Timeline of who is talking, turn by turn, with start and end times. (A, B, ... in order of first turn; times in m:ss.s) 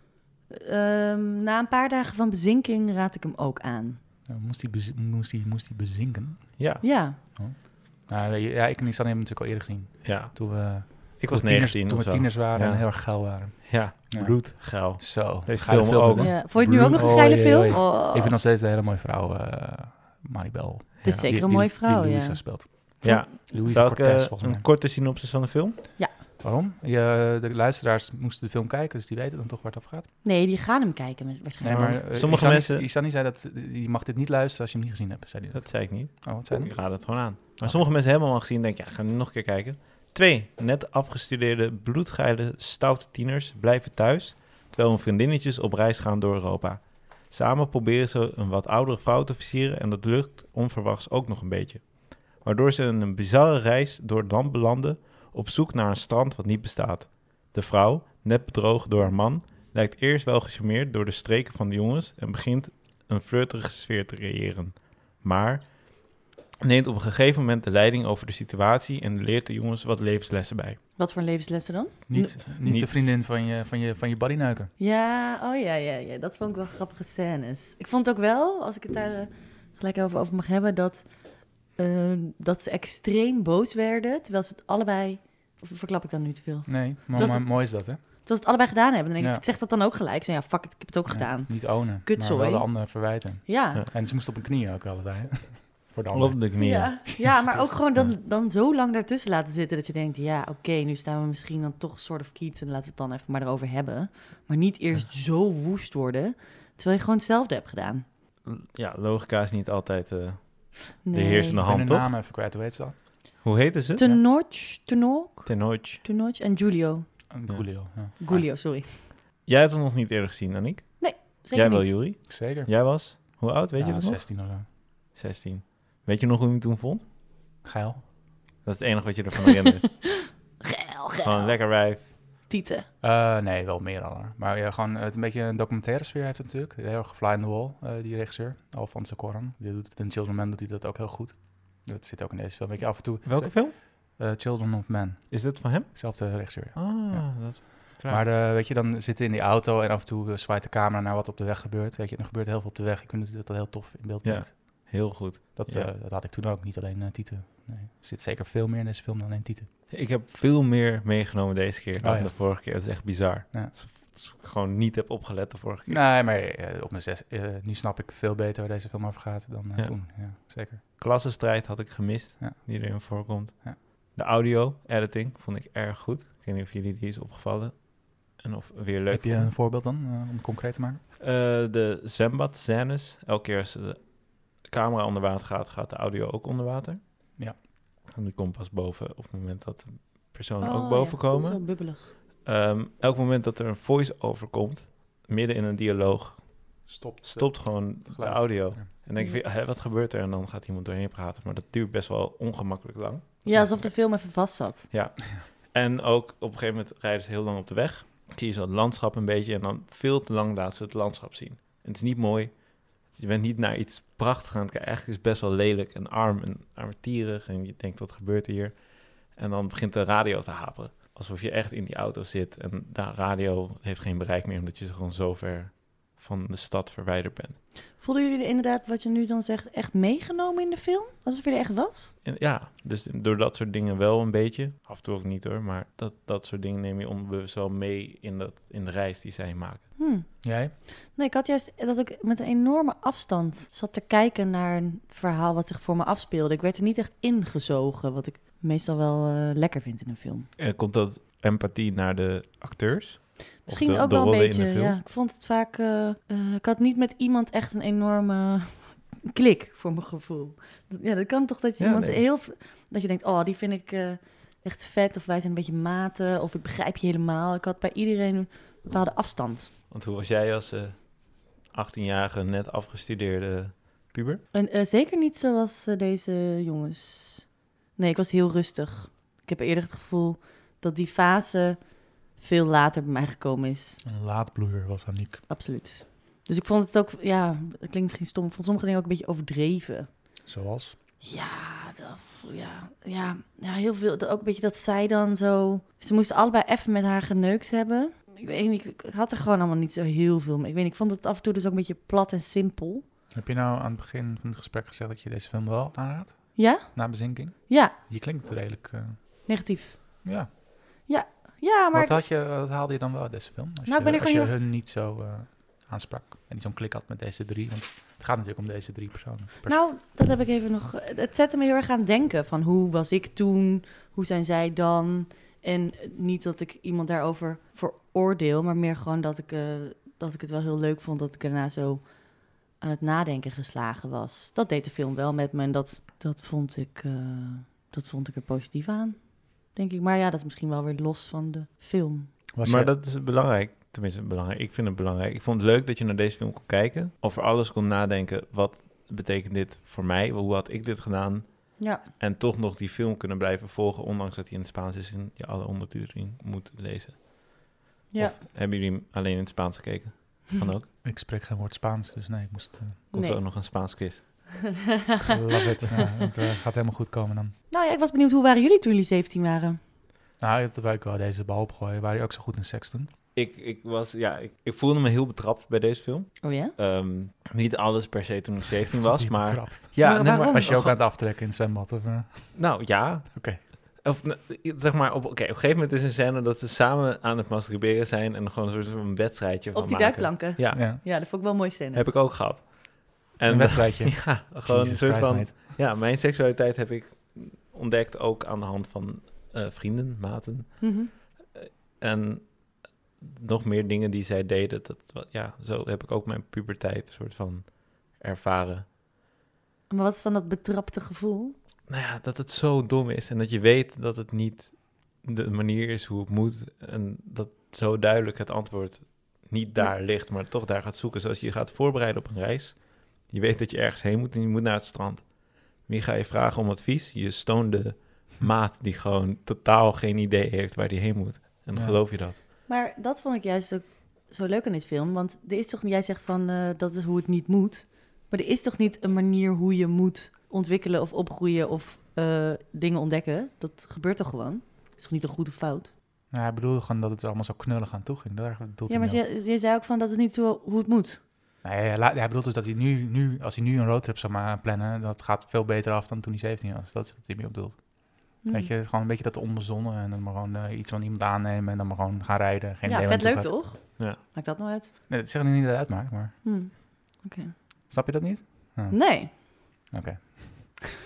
0:00.5-0:04.0 A
0:04.2-0:06.7 B
0:06.6-0:06.8 C
0:06.8-0:07.2 A
0:07.3-0:24.7 B
0:10.0-0:17.1 C
0:16.2-0:18.4 A
0:21.0-0:23.2 A
0:23.0-0:25.8 C
0:26.4-0:30.1 B
0:30.2-0:32.0 A
0:31.6-0:37.9 B
0:31.7-0:32.8 C
0:35.5-1:10.8 C
1:11.0-1:12.6 A
1:12.1-1:14.7 B
1:12.5-1:13.1 C
1:14.8-1:33.8 A
1:26.7-1:28.0 B
1:31.0-1:38.1 B
1:36.1-1:37.4 C
1:36.6-1:48.0 A
1:48.4-1:52.1 C
1:51.0-1:51.6 A
1:51.6-1:53.4 B
1:53.4-1:54.0 C
1:54.0-1:57.2 A
1:55.4-1:56.0 C
1:57.3-1:58.2 B
1:57.4-2:04.5 C
1:58.2-1:59.0 A
2:01.0-2:01.9 A
2:02.3-2:03.2 B
2:03.7-2:04.7 B
2:05.1-2:07.0 C
2:07.6-2:08.0 B
2:08.6-2:10.3 C
2:10.0-2:12.9 A
2:11.2-2:12.1 C
2:13.0-2:35.0 B
2:23.2-2:23.8 C
2:25.3-2:28.2 C
2:34.2-2:35.9 C
2:35.5-2:39.7 B
2:39.9-2:46.0 C
2:42.0-2:42.9 B
2:45.9-2:50.8 B
2:50.9-2:59.5 C
2:52.4-2:53.1 B
2:59.1-3:01.0 B
3:01.2-3:07.4 C
3:08.1-3:23.9 C
3:10.6-3:12.1 A
3:16.9-3:18.9 B
3:23.4-3:24.9 A
3:24.9-3:47.6 C
3:48.0-3:52.2 A
3:52.2-3:59.9 C
4:00.0-4:10.5 A
4:00.4-4:00.7 B
4:10.6-4:15.0 C
4:13.6-4:29.7 A
4:21.8-4:22.2 C
4:29.9-4:34.4 C
4:34.5-4:44.0 A
4:44.0-4:45.4 B
4:45.5-4:50.1 A
4:50.4-4:51.0 B
4:51.2-5:03.0 A
5:03.3-5:09.5 B
5:06.6-5:07.9 A
5:09.4-5:10.2 A
5:10.2-5:10.5 B
5:11.0-5:12.2 A
5:11.9-5:19.8 B
5:13.9-5:14.5 A
5:19.6-5:42.4 A
5:42.5-5:42.9 B
5:42.6-6:00.9 C
5:51.8-5:52.0 A
5:58.1-5:58.4 A
6:01.0-6:03.0 B
6:03.1-6:03.4 A
6:03.1-6:04.5 C
6:05.1-6:06.3 A
6:05.3-6:07.6 B
6:07.7-6:09.8 A
6:10.4-6:13.1 B
6:13.3-6:21.0 C
6:16.4-6:16.7 A
6:19.1-6:22.8 B
6:20.0-6:20.7 A
6:22.5-6:31.4 C
6:23.3-6:23.6 B
6:29.7-6:32.1 A
6:30.7-6:31.0 B
6:31.9-6:48.9 C
6:33.4-6:35.7 B
6:40.8-6:41.1 A
6:49.9-6:51.5 A
6:51.9-7:12.4 C
7:11.7-7:12.0 B
7:12.6-7:25.9 A
7:26.3-7:29.2 B
7:28.9-7:31.2 A
7:31.6-7:43.6 B
7:38.4-7:38.7 A
7:42.8-7:44.9 A
7:45.1-7:46.4 B
7:46.4-7:47.6 A
7:47.9-7:50.8 B
7:48.9-7:49.3 A